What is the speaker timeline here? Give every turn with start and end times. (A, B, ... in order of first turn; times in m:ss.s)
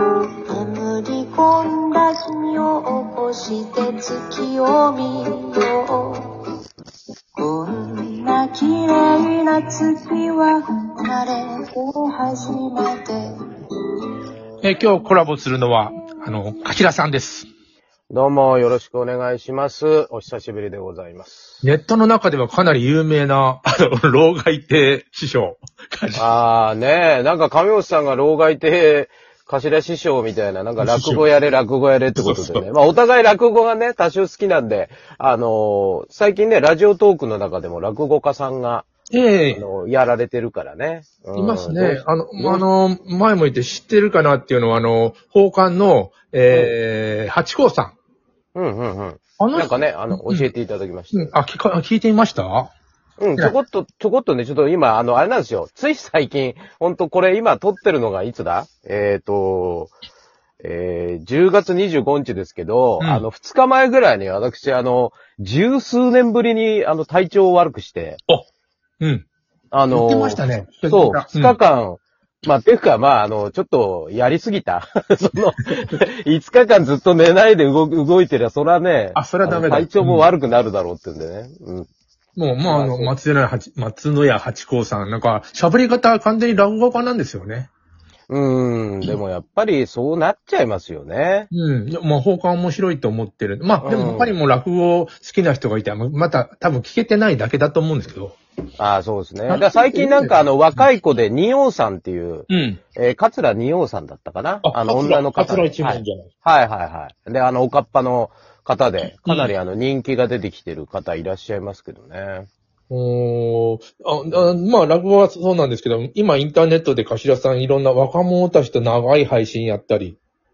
0:00.5-0:06.3 A
0:07.4-0:13.3 A
0:14.6-0:17.5 B
0:18.1-0:21.6 C
0:21.6-0:26.3 B
0:26.2-0:38.9 C
0:30.8-0:31.3 B
0:32.2-0:32.6 B
0:39.1-0:39.6 B
0:39.5-0:42.6 C
0:41.3-0:47.9 B
0:48.5-0:51.3 C
0:49.4-0:50.5 B
0:51.1-0:52.7 B
0:53.2-0:59.9 C
1:00.6-1:08.2 C
1:03.0-1:03.2 B
1:09.0-1:09.2 B
1:09.7-1:21.9 C
1:09.9-1:11.6 B
1:19.1-1:20.3 B
1:22.4-1:27.7 B
1:22.6-1:23.1 C
1:28.3-1:31.5 C
1:31.5-1:38.4 B
1:33.8-1:34.4 C
1:38.8-1:52.5 C
1:39.5-1:40.8 B
1:42.5-1:42.8 B
1:44.6-1:46.3 B
1:49.2-1:49.5 B
1:52.9-2:00.2 B